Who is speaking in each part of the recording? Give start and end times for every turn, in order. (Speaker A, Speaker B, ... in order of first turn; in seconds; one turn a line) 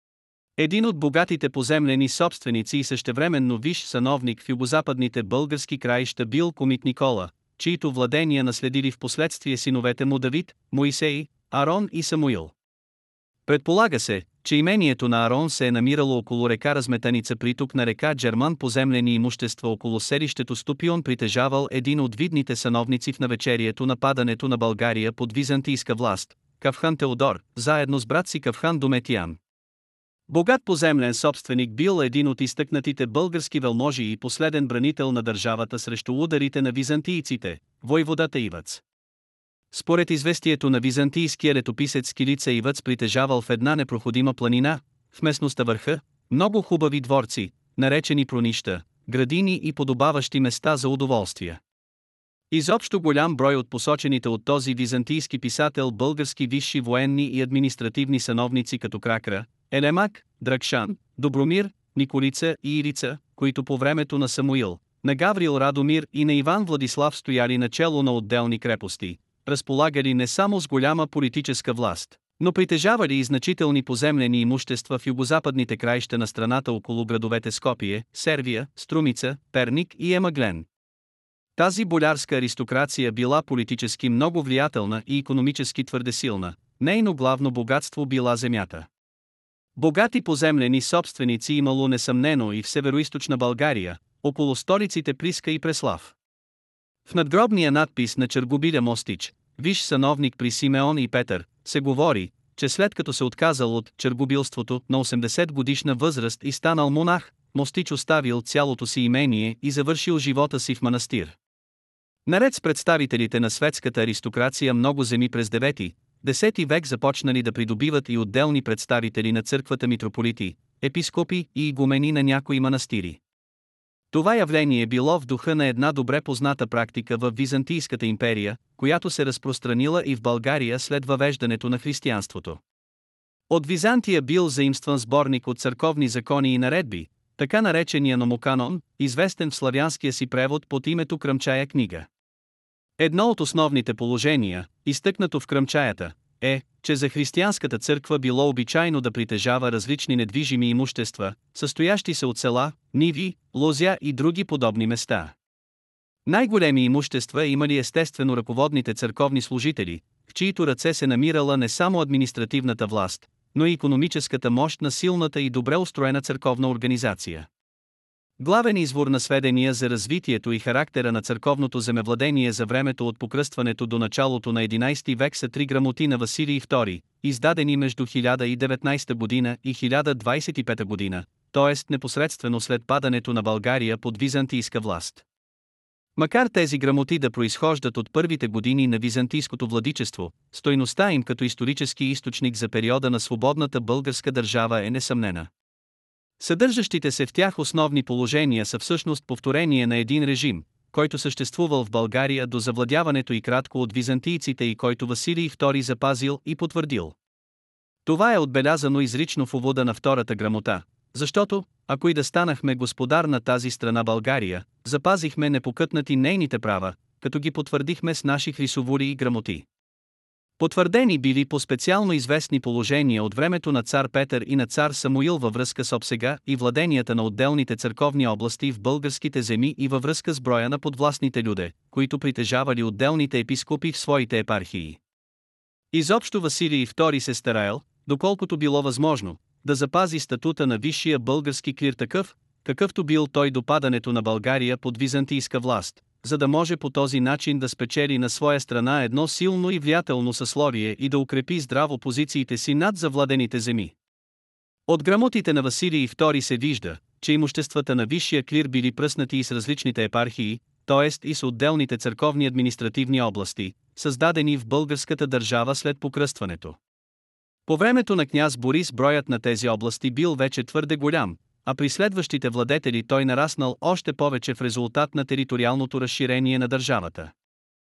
Speaker A: 0.6-12.5
Speaker A: 13.4-29.4
Speaker A: 30.3-38.8
Speaker A: 39.7-51.6
Speaker A: 52.5-80.7
Speaker A: 81.5-88.9
Speaker A: 89.8-96.1
Speaker A: 97.0-111.3
Speaker A: 112.2-123.2
Speaker A: 124.1-132.6
Speaker A: 133.5-142.1
Speaker A: 143.0-155.3
Speaker A: 156.2-167.5
Speaker A: 168.4-185.2
Speaker A: 186.2-195.5
Speaker A: 196.4-207.1
Speaker A: 208.0-219.7
Speaker A: 220.6-235.0
Speaker A: 235.9-253.9
Speaker A: 254.9-266.8
Speaker A: 267.7-277.3